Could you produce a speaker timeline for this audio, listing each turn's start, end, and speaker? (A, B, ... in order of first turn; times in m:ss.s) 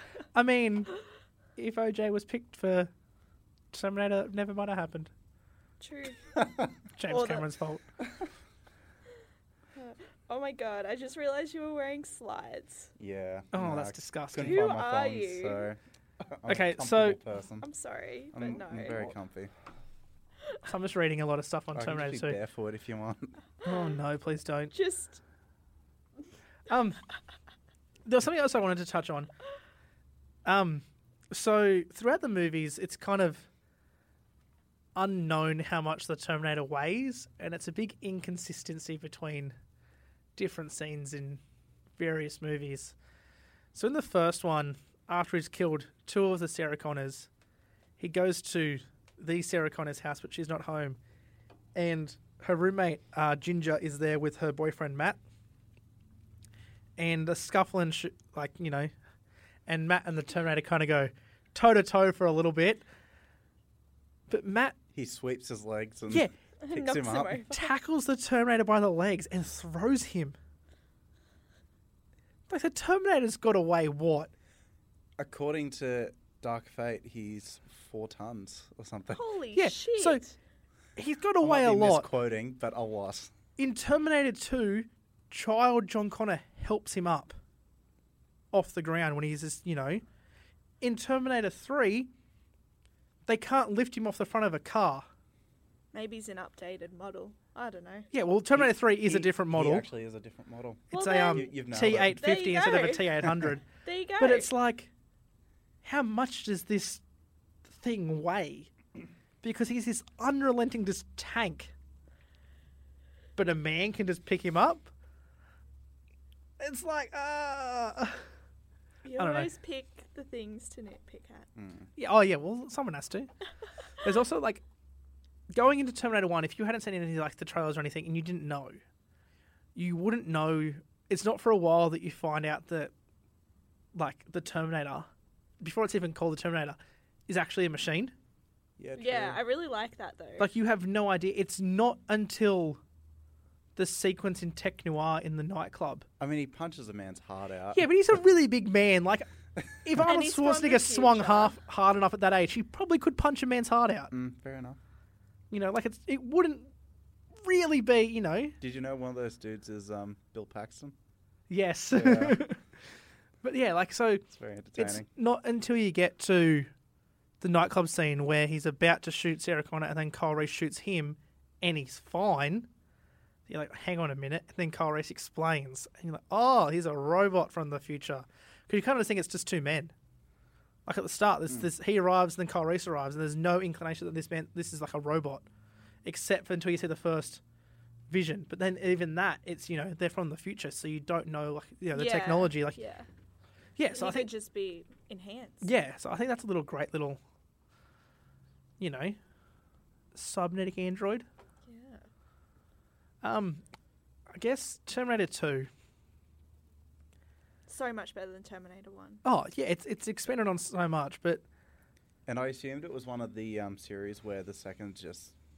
0:00.3-0:01.0 A
0:01.6-0:02.9 A
0:03.7-0:05.1 A
0:05.8-0:06.3 B
0:06.4-0:06.7 C
0:07.0-0:07.8 A
0:07.1-0:07.5 B
0:08.0-0:08.3 C
0:09.8-0:12.9 B
0:13.0-0:17.7 C
0:13.5-0:14.7 A
0:14.4-0:15.7 B
0:16.5-0:17.2 A
0:17.6-0:19.1 B
0:18.3-0:19.5 C
0:20.6-0:22.4 A
0:21.7-0:23.4 C
0:23.6-0:24.0 B
0:23.6-0:24.7 A
0:24.7-0:25.2 B
0:26.7-0:27.0 A
0:28.0-0:29.3 A
0:30.4-0:33.5 A
0:35.0-0:39.6 A
0:40.4-0:41.4 A
0:42.0-0:43.0 A
0:43.7-0:47.3 A
0:48.0-0:51.0 A
0:51.8-0:55.2 A
0:57.0-0:58.9 A
0:59.7-1:02.8 A
1:04.3-1:04.8 A
1:04.9-1:07.4 C
1:06.6-1:07.7 B
1:07.5-1:10.4 A
1:12.5-1:14.3 A
1:15.2-1:19.2 C
1:19.1-1:20.4 B
1:19.5-1:20.2 A
1:21.0-1:22.1 A
1:21.4-1:23.3 C
1:23.6-1:27.4 A
1:28.5-1:30.0 A
1:30.8-1:32.1 A
1:33.3-1:35.1 A
1:35.9-1:38.1 B
1:38.1-1:39.8 A
1:38.6-1:42.2 C
1:40.9-1:41.5 B
1:40.9-1:43.6 A
1:42.1-1:44.5 B
1:44.2-1:44.9 A
1:45.8-1:47.0 A
1:47.7-1:48.7 A
1:49.4-1:51.7 A
1:53.4-1:54.9 A
1:56.6-1:58.3 A
1:59.0-2:01.5 B
1:59.2-1:59.5 A
2:01.6-2:01.9 C
2:02.0-2:03.3 A
2:04.0-2:04.6 A
2:05.5-2:08.8 A
2:09.8-2:12.9 A
2:14.0-2:15.1 A
2:15.6-2:18.1 A
2:18.8-2:19.4 C
2:19.0-2:20.5 B
2:20.4-2:22.8 A
2:23.8-2:26.1 A
2:26.2-2:27.9 C
2:27.7-2:29.3 A
2:29.8-2:34.1 A
2:30.0-2:31.6 B
2:34.1-2:34.8 C
2:35.5-2:36.7 A
2:37.4-2:38.6 A
2:38.6-2:41.0 C
2:41.5-2:42.6 A
2:41.9-2:42.4 C
2:43.4-2:44.2 A
2:44.3-2:45.1 C
2:44.8-2:46.7 A
2:47.4-2:52.7 A
2:53.5-2:59.9 A
3:00.9-3:05.4 A
3:06.0-3:07.4 A
3:08.1-3:12.8 A
3:11.9-3:13.1 B
3:13.8-3:14.3 A
3:13.9-3:15.7 B
3:15.6-3:17.2 A
3:18.8-3:19.2 A
3:20.1-3:21.3 A
3:21.7-3:22.0 B
3:23.2-3:23.6 A
3:24.3-3:25.7 A
3:27.7-3:29.2 B
3:29.2-3:31.4 A
3:32.3-3:35.3 C